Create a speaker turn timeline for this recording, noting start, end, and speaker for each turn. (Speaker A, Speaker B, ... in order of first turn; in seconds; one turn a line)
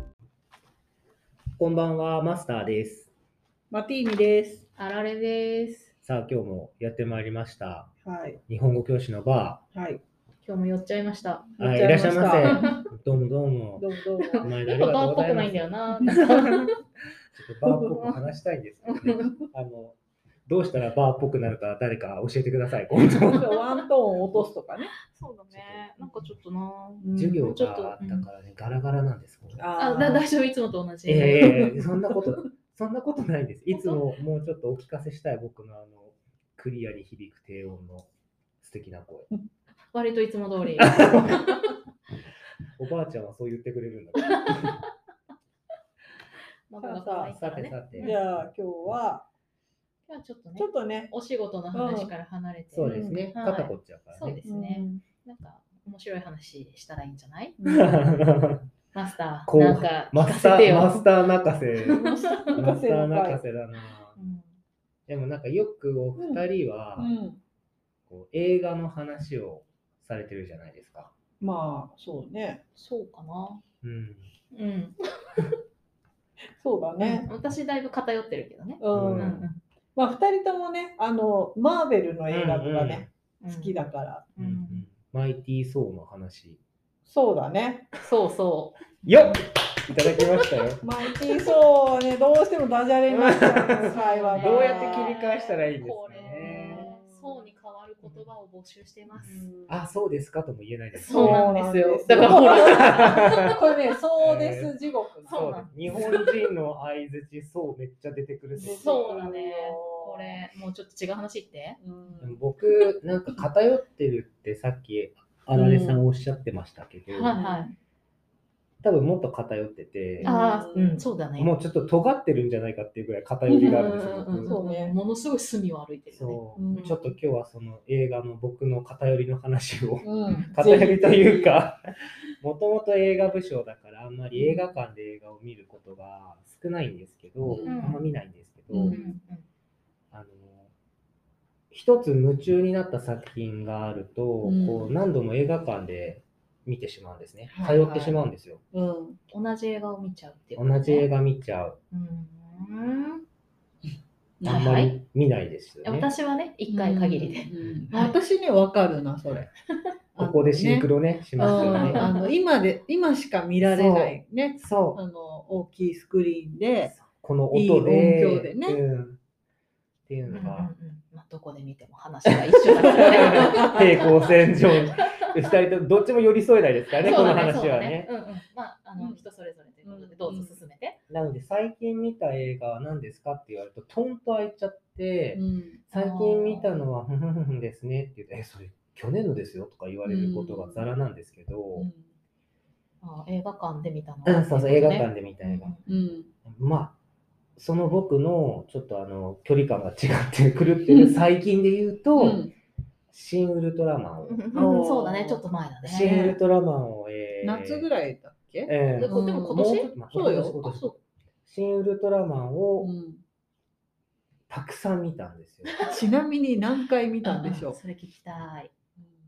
Speaker A: 1.6-3.1
Speaker B: 3.7-4.6
Speaker C: 4.8-5.9
Speaker A: 6.0-7.9
Speaker B: 8.0-8.4
Speaker A: 8.5-9.6
Speaker B: 9.7-10.0
Speaker C: 10.4-11.5
Speaker B: 11.6-12.8
Speaker A: 11.6-13.8
Speaker C: 12.3-12.9
Speaker B: 13.8-14.5
Speaker C: 14.2-16.7
Speaker A: 14.4-15.7
Speaker B: 16.0-16.7
Speaker A: 17.3-23.5
Speaker B: 17.7-18.1
Speaker C: 18.9-19.3
Speaker B: 19.1-19.4
Speaker B: 23.2-24.9
Speaker C: 23.5-23.8
Speaker C: 25.0-28.3
Speaker A: 25.5-25.9
Speaker B: 27.0-27.5
Speaker A: 27.1-29.6
Speaker B: 29.6-30.3
Speaker C: 29.8-31.6
Speaker A: 31.1-38.1
Speaker B: 31.4-32.4
Speaker C: 33.7-34.0
Speaker A: 38.6-39.3
Speaker C: 39.9-41.6
Speaker A: 40.8-41.6
Speaker A: 42.8-44.8
Speaker C: 44.2-44.8
Speaker C: 46.7-48.2
Speaker B: 46.8-47.3
Speaker A: 47.3-48.2
Speaker B: 48.0-49.3
Speaker C: 50.1-57.6
Speaker B: 50.6-51.1
Speaker B: 51.7-52.1
Speaker A: 52.7-54.4
Speaker B: 52.8-53.3
Speaker B: 54.4-55.0
Speaker B: 57.6-58.0
Speaker A: 57.6-58.7
Speaker C: 58.9-61.1
Speaker A: 59.5-62.0
Speaker C: 61.9-62.6
Speaker B: 61.9-63.4
Speaker A: 62.5-64.2
Speaker C: 64.2-64.5
Speaker A: 65.1-67.1
Speaker B: 66.2-66.5
Speaker B: 67.0-67.4
Speaker A: 68.1-71.1
Speaker B: 71.4-72.6
Speaker C: 72.8-73.6
Speaker A: 73.8-74.3
Speaker C: 74.5-75.0
Speaker B: 76.6-77.3
Speaker C: 77.0-79.6
Speaker B: 78.8-79.4
Speaker A: 78.9-79.5
Speaker B: 80.0-84.3
Speaker A: 82.3-83.1
Speaker C: 83.4-83.8
Speaker C: 84.4-84.9
Speaker A: 84.4-86.6
Speaker B: 87.1-87.9
Speaker C: 88.0-88.8
Speaker A: 89.0-90.8
Speaker C: 90.0-90.5
Speaker B: 90.8-95.2
Speaker A: 93.1-96.9
Speaker C: 93.9-99.5
Speaker B: 96.4-97.4
Speaker B: 99.2-99.8
Speaker A: 99.7-101.5
Speaker C: 101.0-103.5
Speaker B: 101.1-105.4
Speaker A: 102.1-103.5
Speaker A: 104.2-104.7
Speaker C: 105.2-106.2
Speaker A: 105.3-109.3
Speaker B: 108.6-110.4
Speaker C: 108.6-111.8
Speaker B: 111.8-112.4
Speaker A: 112.2-117.4
Speaker B: 115.5-116.0
Speaker C: 117.1-117.7
Speaker B: 117.3-117.7
Speaker A: 118.8-120.3
Speaker B: 120.2-121.0
Speaker C: 120.2-121.5
Speaker A: 121.4-124.5
Speaker B: 123.5-123.8
Speaker C: 123.6-127.1
Speaker B: 124.5-125.0
Speaker A: 126.1-131.8
Speaker B: 126.6-127.0
Speaker B: 130.0-131.5
Speaker C: 130.3-130.5
Speaker A: 132.4-139.0
Speaker B: 137.4-138.0
Speaker C: 137.6-138.1
Speaker B: 138.7-139.2
Speaker C: 138.8-139.4
Speaker A: 140.1-140.7
Speaker A: 141.7-148.6
Speaker B: 144.4-145.0
Speaker B: 147.5-148.2
Speaker B: 148.7-149.2
Speaker C: 149.3-151.1
Speaker A: 150.6-151.8
Speaker C: 151.9-153.2
Speaker C: 154.4-154.9
Speaker A: 154.4-156.1
Speaker C: 155.8-158.2
Speaker B: 156.7-159.5
Speaker B: 160.2-166.9
Speaker A: 160.2-162.1
Speaker C: 161.4-162.3
Speaker A: 163.6-165.0
Speaker A: 166.9-169.2
Speaker B: 167.5-168.8
Speaker A: 170.1-170.7
Speaker C: 170.3-174.3
Speaker A: 172.6-178.1
Speaker C: 174.9-175.3
Speaker C: 177.0-181.0
Speaker B: 179.0-179.2
Speaker B: 179.8-180.6
Speaker A: 181.1-191.9
Speaker B: 185.3-185.8
Speaker C: 185.9-186.7
Speaker B: 190.1-190.9
Speaker B: 191.8-192.1
Speaker C: 193.0-196.0
Speaker A: 194.2-195.7
Speaker B: 195.9-196.3
Speaker A: 196.5-197.0
Speaker A: 197.6-202.5
Speaker B: 200.9-201.2
Speaker B: 202.2-202.5
Speaker A: 203.1-204.7
Speaker C: 204.3-206.1
Speaker B: 204.5-205.4
Speaker A: 205.8-207.9
Speaker B: 205.9-206.4
Speaker B: 207.4-210.6
Speaker A: 208.7-210.9
Speaker C: 208.9-211.0
Speaker A: 211.5-212.9
Speaker B: 212.8-213.2
Speaker A: 214.5-215.7
Speaker C: 215.7-216.0
Speaker B: 215.8-217.8
Speaker C: 217.2-218.7